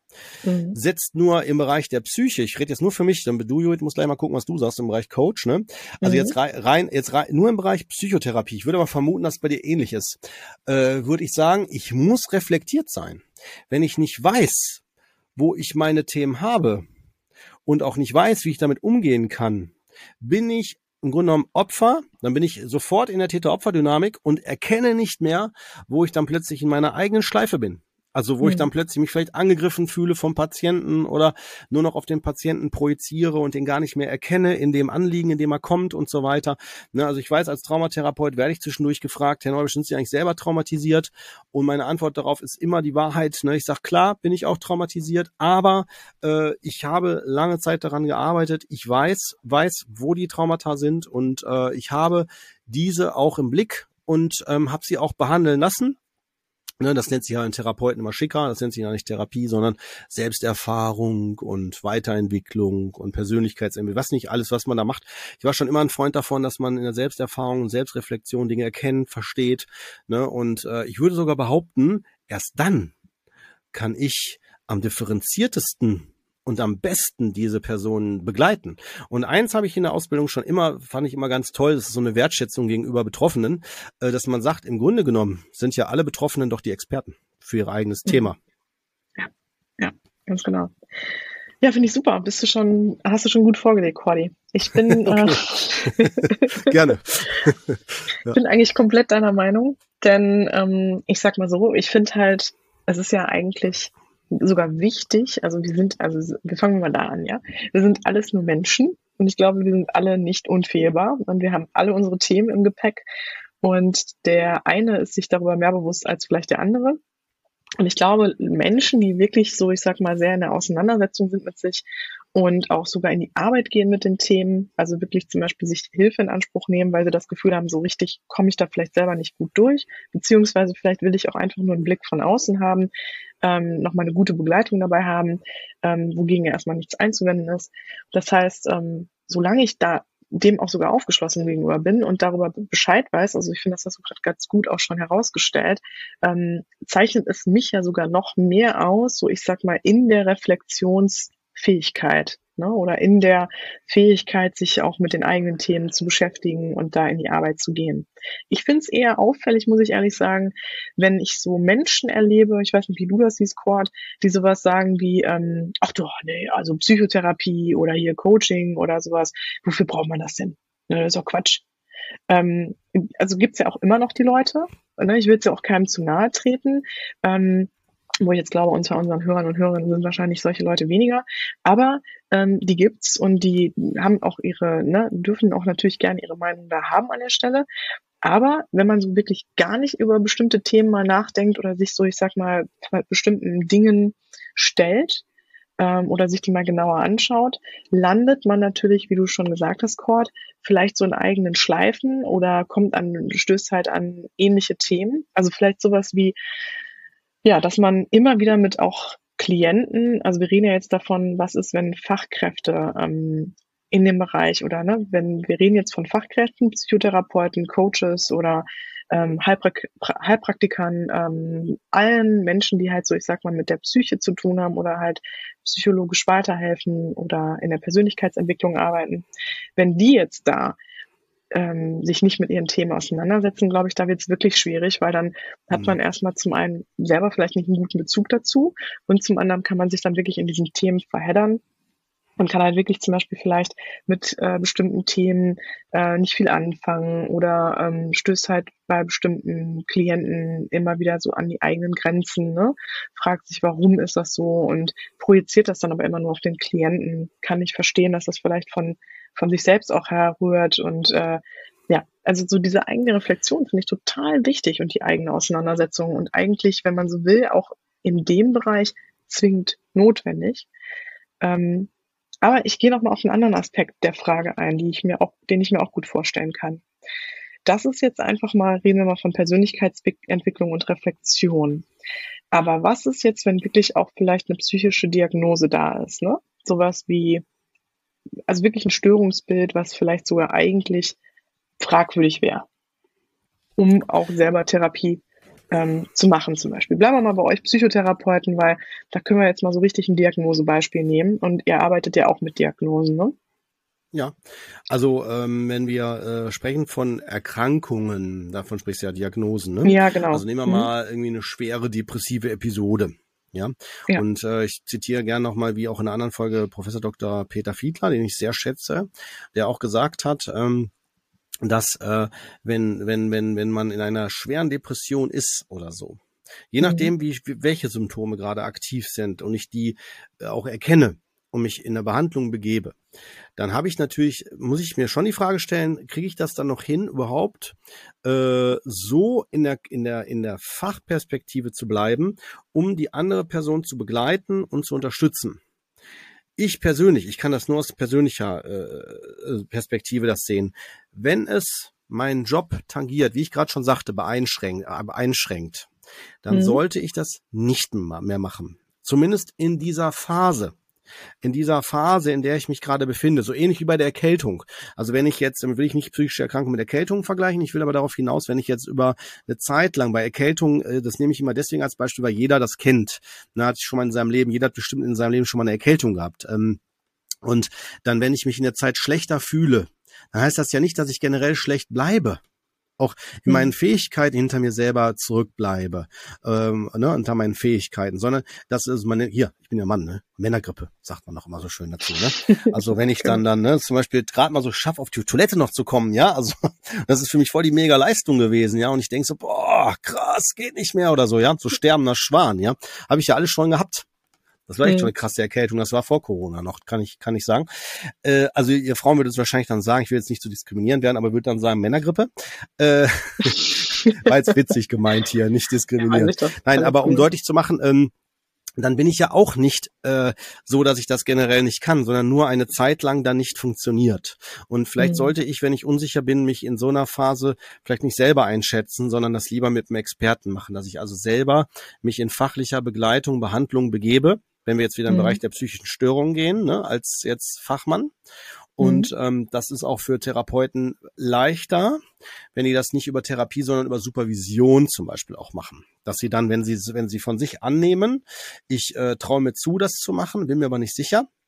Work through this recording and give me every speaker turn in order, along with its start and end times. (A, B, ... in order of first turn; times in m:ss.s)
0:00.4-0:00.8 A
0:00.7-0:14.8 B
0:06.0-0:06.4 A
0:15.4-0:16.8 B
0:17.7-0:56.0 B
0:28.4-0:28.7 A
0:56.8-1:12.9 B
1:13.7-1:28.4 B
1:29.2-1:30.7 A
1:31.6-1:36.8 A
1:34.9-1:38.4 B
1:38.3-1:53.0 A
1:53.6-1:57.0 A
1:57.8-2:12.9 A
2:13.4-2:51.6 A
2:52.3-2:57.7 A
2:58.2-3:07.7 A
3:08.2-3:15.2 A
3:15.8-3:26.4 A
3:27.4-3:49.3 A
3:49.8-3:50.8 A
3:51.5-4:01.6 A
4:02.4-4:30.7 A
4:31.4-4:31.9 A
4:32.4-4:36.8 A
4:37.7-4:41.9 A
4:42.5-4:47.4 A
4:48.5-4:51.2 A
4:51.8-4:52.7 A
4:53.8-5:03.4 A
5:04.9-5:20.9 B
5:09.8-5:10.9 A
5:21.6-5:26.2 B
5:26.7-5:33.0 B
5:26.8-5:27.1 A
5:33.6-5:45.6 B
5:46.6-5:55.9 B
5:56.4-6:00.7 B
5:56.5-5:56.8 A
6:01.4-6:16.8 B
6:17.4-6:22.4 B
6:23.0-6:44.1 B
6:32.4-6:33.4 A
6:44.7-6:58.1 B
6:44.8-6:45.1 A
6:53.6-6:54.2 A
6:56.0-6:57.3 A
6:58.8-7:18.1 B
7:05.0-7:05.3 A
7:15.1-7:15.4 A
7:18.8-7:22.0 B
7:18.8-7:19.1 A
7:22.5-7:31.3 B